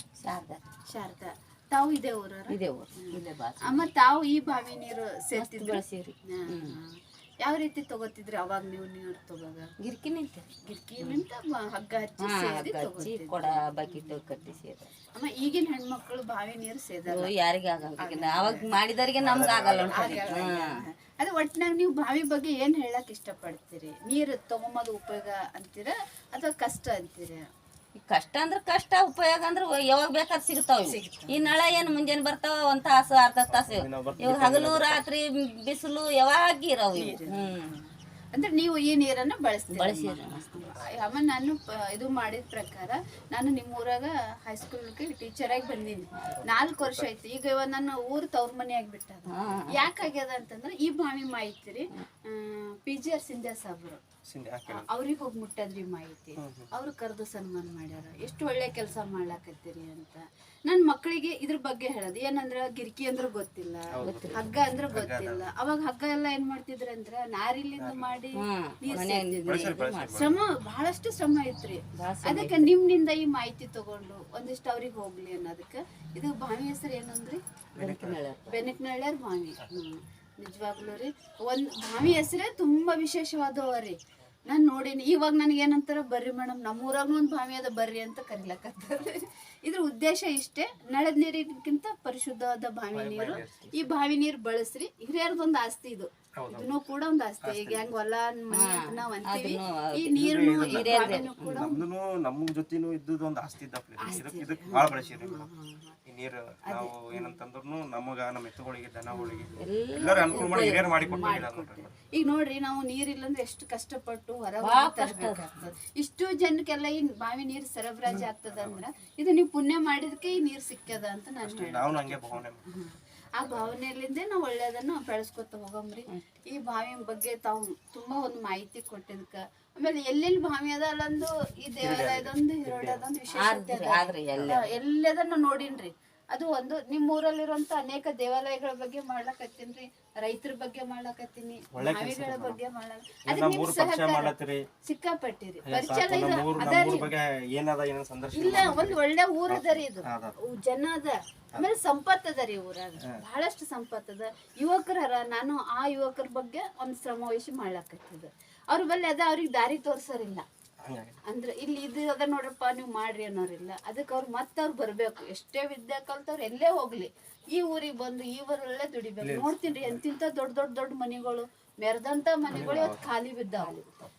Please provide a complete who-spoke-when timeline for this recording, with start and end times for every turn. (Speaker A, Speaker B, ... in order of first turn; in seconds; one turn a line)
Speaker A: 0.2-0.6
Speaker B: 0.8-9.7
Speaker A: 2.5-3.9
Speaker A: 5.3-6.8
Speaker A: 9.8-10.5
Speaker B: 10.6-14.6
Speaker A: 12.2-14.9
Speaker B: 15.1-17.3
Speaker A: 17.1-20.7
Speaker B: 17.9-18.7
Speaker C: 19.2-20.3
Speaker B: 19.9-27.5
Speaker A: 28.0-37.8
Speaker B: 30.8-31.8
Speaker C: 33.5-35.0
Speaker B: 36.9-37.7
Speaker B: 38.3-54.0
Speaker A: 39.7-40.5
Speaker C: 46.4-47.1
Speaker A: 49.3-49.9
Speaker C: 54.2-54.9
Speaker B: 54.7-77.4
Speaker C: 56.4-56.7
Speaker C: 63.9-65.5
Speaker A: 64.0-64.4
Speaker C: 67.8-68.1
Speaker A: 68.3-70.3
Speaker C: 69.4-70.4
Speaker A: 71.9-72.7
Speaker C: 77.7-78.2
Speaker A: 77.8-78.7
Speaker B: 78.5-101.8
Speaker C: 92.9-93.9
Speaker C: 96.3-96.7
Speaker C: 97.4-97.9
Speaker A: 98.5-101.7
Speaker C: 100.1-105.5
Speaker B: 104.0-106.0
Speaker C: 106.0-111.9
Speaker B: 106.6-107.3
Speaker B: 109.1-109.6
Speaker A: 109.6-111.5
Speaker B: 110.3-147.1
Speaker A: 114.6-115.6
Speaker C: 118.1-118.8
Speaker C: 121.4-122.6
Speaker C: 123.4-123.7
Speaker C: 131.8-133.0
Speaker A: 133.3-134.7
Speaker C: 134.3-134.7
Speaker C: 141.7-142.6
Speaker C: 143.2-144.7
Speaker C: 145.6-150.3
Speaker B: 148.3-160.4
Speaker C: 160.8-161.2
Speaker B: 161.2-173.8
Speaker C: 169.2-170.0
Speaker C: 172.5-173.0
Speaker A: 173.6-174.1